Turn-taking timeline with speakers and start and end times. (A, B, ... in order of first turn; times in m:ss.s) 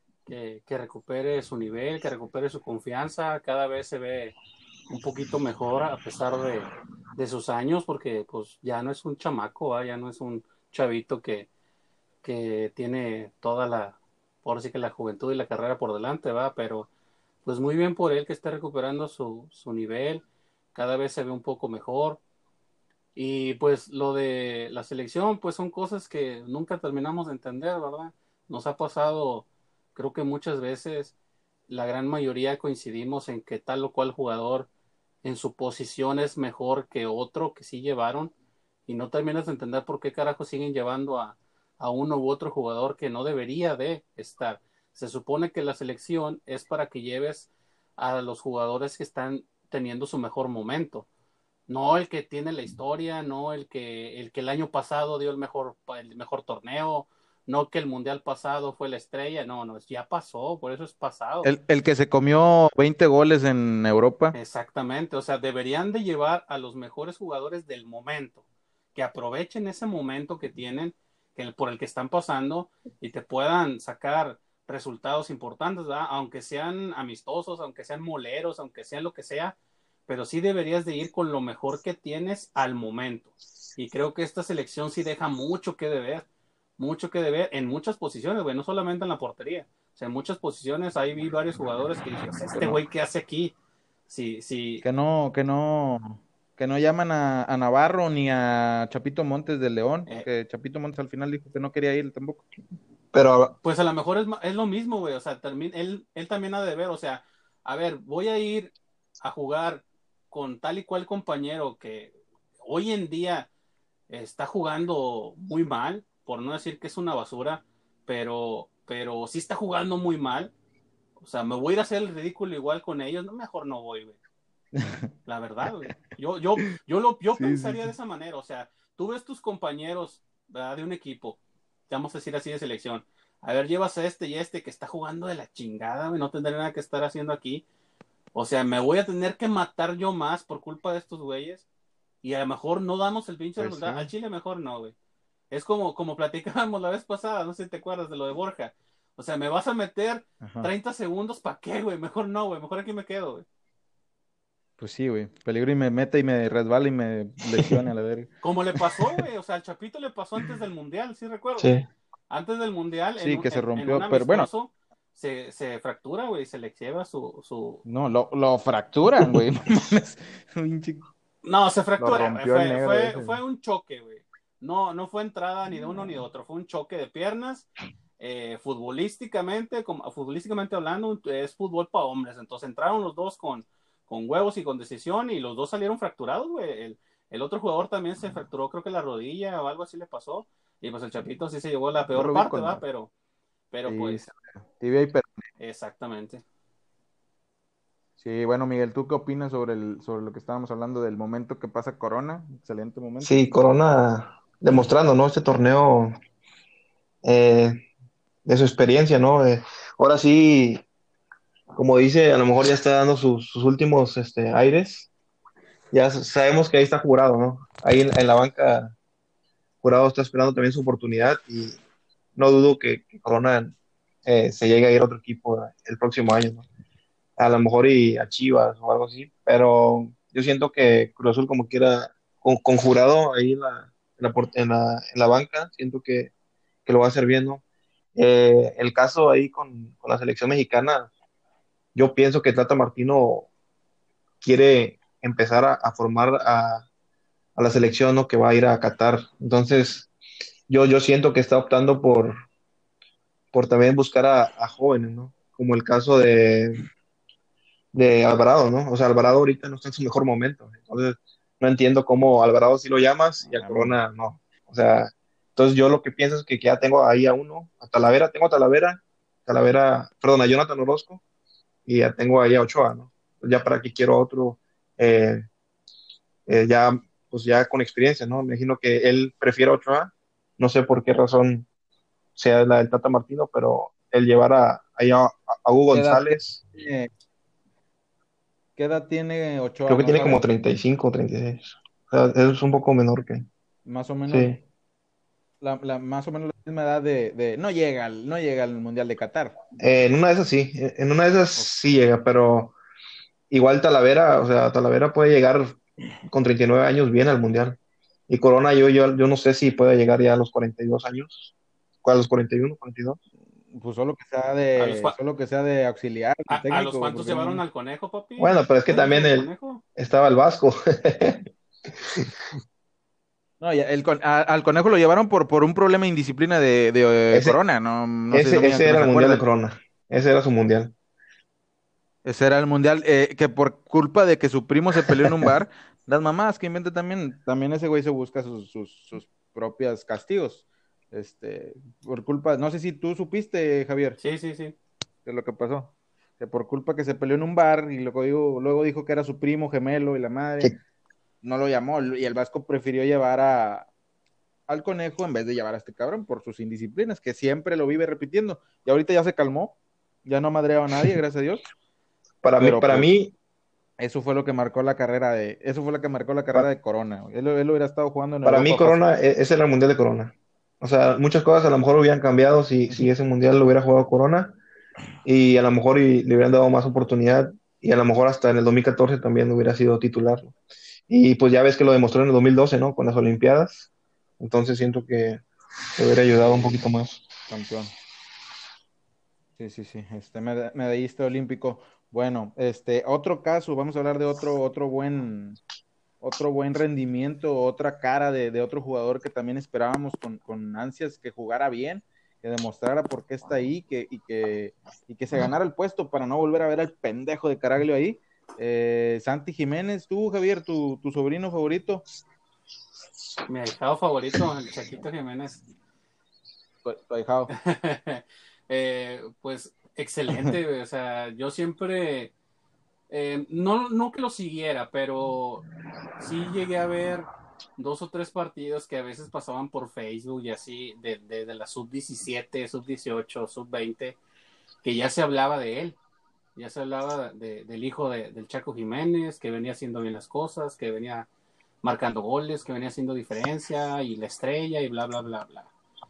0:00.3-0:04.3 A
0:04.9-0:11.5 A
0:12.2-0:16.9 A
0:17.4-0:22.2 A
0:23.1-0:31.1 A
0:31.7-0:34.7 A
0:35.2-0:38.3 A
0:38.9-0:51.1 A
0:51.7-1:01.5 A
1:01.4-1:04.4 B
1:04.3-1:08.4 A
1:08.9-1:19.6 A
1:20.1-1:26.2 A
1:26.8-1:33.5 A
1:32.5-1:32.8 B
1:34.1-1:34.8 A
1:34.8-1:42.4 B
1:43.1-1:43.5 C
1:43.6-1:52.1 A
1:52.6-1:53.5 A
1:54.1-2:00.5 A
2:01.2-2:04.2 A
2:04.7-2:05.1 B
2:05.2-2:17.6 A
2:07.4-2:07.9 B
2:18.3-2:21.6 A
2:22.2-2:24.9 A
2:23.6-2:24.1 B
2:25.5-2:33.4 A
2:30.4-2:30.7 B
2:34.8-2:38.3 B
2:38.4-2:41.7 A
2:41.6-2:41.9 C
2:42.3-2:47.8 A
2:43.2-2:44.5 B
2:47.8-2:51.1 B
2:51.4-3:13.1 A
2:52.0-2:53.4 B
3:12.1-3:12.8 B
3:13.7-3:14.2 A
3:13.8-3:15.4 B
3:15.6-3:16.4 A
3:18.2-3:23.4 B
3:23.2-3:26.1 C
3:27.2-3:27.8 C
3:28.4-3:30.8 C
3:31.7-3:35.1 C
3:35.9-3:38.9 C
3:39.8-3:41.8 C
3:42.4-3:46.6 C
3:47.4-3:56.3 C
3:56.8-3:57.6 C
3:58.1-4:01.1 C
4:01.9-4:03.5 C
4:04.4-4:06.8 C
4:07.6-4:10.1 C
4:10.7-4:12.4 C
4:13.5-4:16.8 C
4:17.9-4:31.2 C
4:23.4-4:24.0 B
4:31.8-4:35.4 C
4:36.5-4:41.7 C
4:42.4-4:46.6 C
4:45.9-4:47.1 B
4:48.8-4:50.4 B
4:49.9-4:53.4 C
4:53.8-4:54.6 B
4:54.3-4:54.6 C
4:55.6-4:59.6 B
4:59.8-5:02.8 C
5:03.5-5:07.8 C
5:08.3-5:11.5 C
5:12.0-5:13.2 C
5:13.7-5:17.6 B
5:14.8-5:15.2 A
5:16.5-5:19.8 A
5:18.4-5:21.4 C
5:23.6-5:29.4 B
5:27.3-5:27.6 C
5:28.3-5:30.9 C
5:32.2-5:44.2 B
5:44.2-5:44.7 A
5:45.2-5:50.7 B
5:51.4-5:53.9 B
5:54.7-6:01.6 B
6:02.4-6:03.3 C
6:02.6-6:03.1 B
6:04.0-6:09.0 B
6:08.4-6:14.6 C
6:15.2-6:20.5 C
6:21.1-6:23.9 C
6:24.4-6:25.4 C
6:26.0-6:27.2 C
6:26.3-6:26.8 B
6:27.5-6:27.9 B
6:29.6-6:35.6 B
6:36.2-6:52.0 B
6:53.5-6:55.6 A
6:56.8-6:57.5 B
6:57.6-7:02.3 A
7:03.1-7:05.6 A
7:06.2-7:14.2 A
7:14.8-7:16.0 A
7:16.6-7:21.3 A
7:21.8-7:25.7 A